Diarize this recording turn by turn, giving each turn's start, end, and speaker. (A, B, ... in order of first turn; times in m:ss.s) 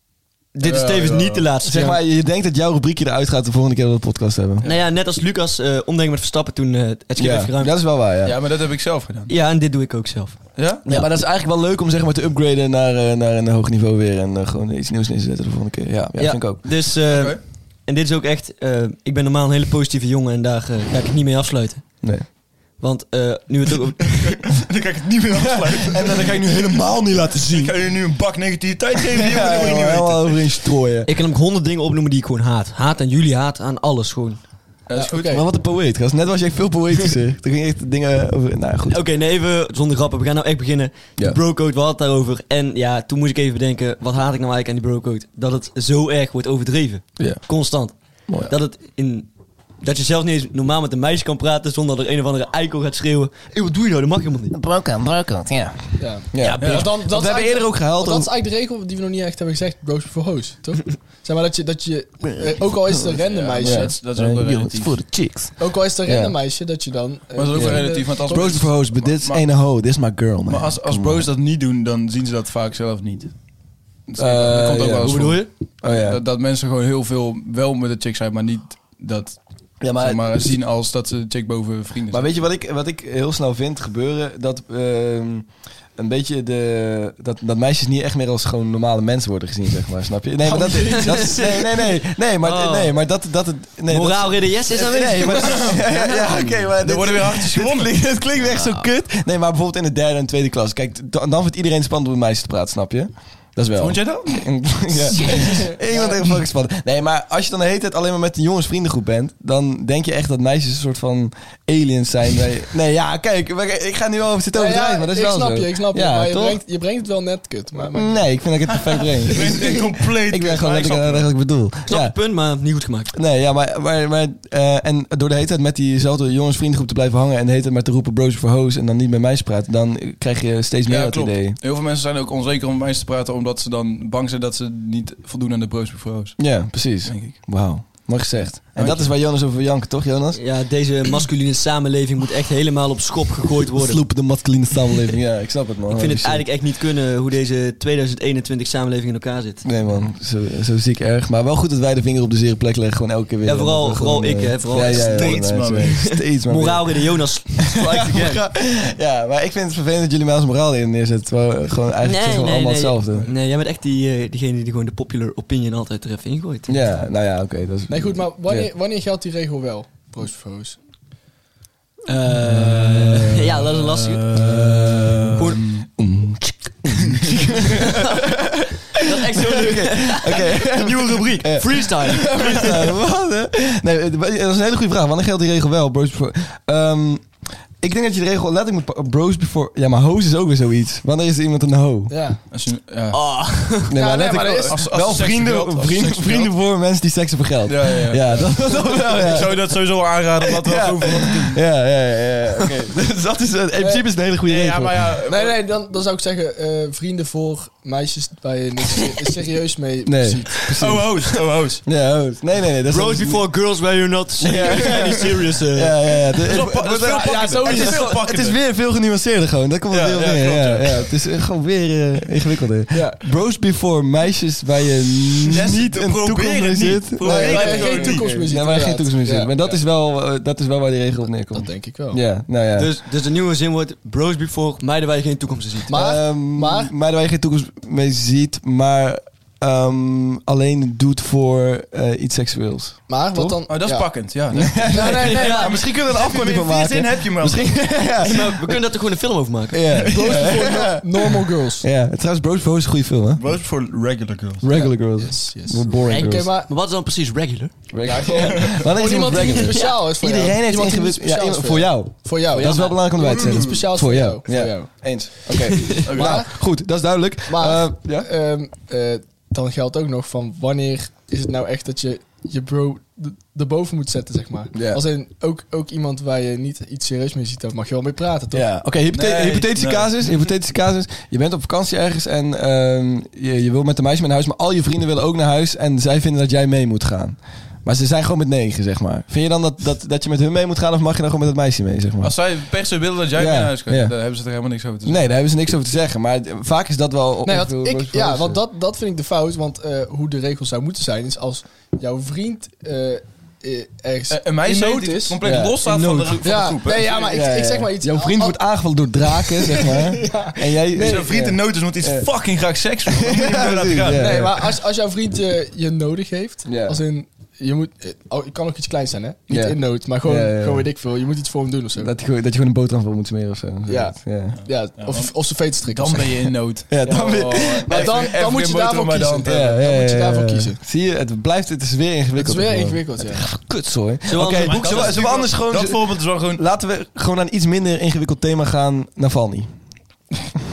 0:00.5-0:02.0 A
0:00.6-0:01.5 B
0:01.6-0:04.7 C
0:04.6-0:07.8 A
0:07.2-0:08.4 C
0:08.2-0:09.3 B
0:09.3-0:11.1 A
0:10.6-0:10.8 B
0:10.8-0:16.6 C
0:16.2-0:24.4 A
0:17.0-0:17.4 B
0:24.2-0:26.7 B
0:25.3-0:27.8 C
0:27.4-0:30.5 B
0:29.1-0:31.1 C
0:31.0-0:34.4 A
0:34.8-0:35.4 B
0:35.0-0:35.4 D
0:35.3-0:39.0 C
0:38.9-0:49.3 A
0:47.2-0:47.6 C
0:48.3-0:48.5 C
0:49.8-0:54.6 A
0:54.5-0:58.3 C
0:56.0-1:04.0 D
0:56.4-0:56.8 A
0:56.6-0:56.9 B
1:03.1-1:05.2 B
1:03.6-1:06.4 C
1:05.6-1:08.6 D
1:07.3-1:09.5 B
1:07.5-1:11.3 C
1:10.5-1:13.3 B
1:14.1-1:22.4 B
1:14.2-1:16.2 C
1:15.0-1:15.5 A
1:19.8-1:20.6 C
1:22.1-1:56.6 C
1:30.4-1:31.6 D
1:31.0-1:31.6 A
1:32.4-1:32.9 A
1:33.9-1:36.6 A
1:35.4-1:35.8 B
1:36.8-1:38.0 B
1:38.4-1:38.8 A
1:43.8-1:45.3 B
1:45.4-1:46.1 D
1:54.5-1:58.3 D
1:57.9-2:02.2 C
1:58.7-2:01.3 B
2:01.9-2:03.1 A
2:03.1-2:11.6 C
2:10.9-2:18.0 B
2:16.4-2:20.4 C
2:18.7-2:19.2 B
2:20.3-2:24.4 A
2:23.8-2:26.4 C
2:25.9-2:29.6 A
2:29.6-2:43.3 C
2:33.4-2:38.4 A
2:34.7-2:36.1 B
2:42.0-2:46.8 A
2:46.7-2:48.7 C
2:47.9-2:50.8 D
2:52.0-2:54.2 A
2:52.6-2:55.8 B
2:54.3-2:58.7 C
2:57.9-2:58.2 A
2:59.0-3:02.9 A
2:59.2-3:12.2 C
3:12.1-3:12.4 D
3:12.5-3:13.4 B
3:13.1-3:13.9 A
3:13.9-3:19.8 C
3:13.9-3:14.8 D
3:14.7-3:16.5 B
3:17.7-3:21.6 B
3:20.4-3:25.1 C
3:24.4-3:25.6 B
3:25.3-3:31.1 D
3:30.0-3:31.0 C
3:30.7-3:31.8 B
3:31.8-3:33.4 C
3:32.9-3:36.1 A
3:34.4-3:52.9 C
3:36.4-3:38.6 B
3:36.5-3:38.2 D
3:39.9-3:41.1 B
3:42.9-3:43.2 D
3:45.5-3:48.3 B
3:47.2-3:49.5 D
3:47.6-3:47.9 A
3:51.5-3:52.2 D
3:52.7-3:55.9 A
3:55.9-3:56.9 D
3:55.9-4:03.6 C
4:03.1-4:04.2 D
4:03.7-4:07.9 B
4:04.5-4:08.8 C
4:04.8-4:05.8 D
4:05.3-4:05.7 A
4:08.2-4:10.4 A
4:09.7-4:13.4 C
4:10.0-4:11.8 D
4:13.4-4:14.7 B
4:14.6-4:16.5 C
4:14.7-4:16.7 D
4:16.1-4:17.7 A
4:17.9-4:28.3 C
4:18.0-4:18.9 B
4:18.2-4:26.7 D
4:19.5-4:20.0 A
4:22.5-4:23.0 A
4:23.2-4:23.8 B
4:26.0-4:26.4 B
4:27.5-4:38.6 D
4:34.7-4:35.0 C
4:38.5-4:52.4 C
4:39.1-4:40.4 B
4:52.2-4:55.2 B
4:53.3-4:54.1 C
4:55.0-4:58.6 C
4:57.4-5:05.4 D
5:04.3-5:07.3 B
5:05.4-5:06.4 C
5:05.9-5:06.3 A
5:06.4-5:08.6 D
5:07.3-5:12.3 C
5:09.2-5:11.3 D
5:11.0-5:14.4 B
5:13.1-5:14.7 C
5:14.1-5:22.1 D
5:16.6-5:17.0 C
5:19.5-5:20.9 C
5:22.0-5:24.6 C
5:23.9-5:26.5 D
5:24.5-5:29.7 B
5:26.9-5:28.1 C
5:27.9-5:30.8 D
5:29.4-5:39.7 C
5:32.4-5:33.5 D
5:34.3-5:35.2 A
5:34.4-5:36.6 B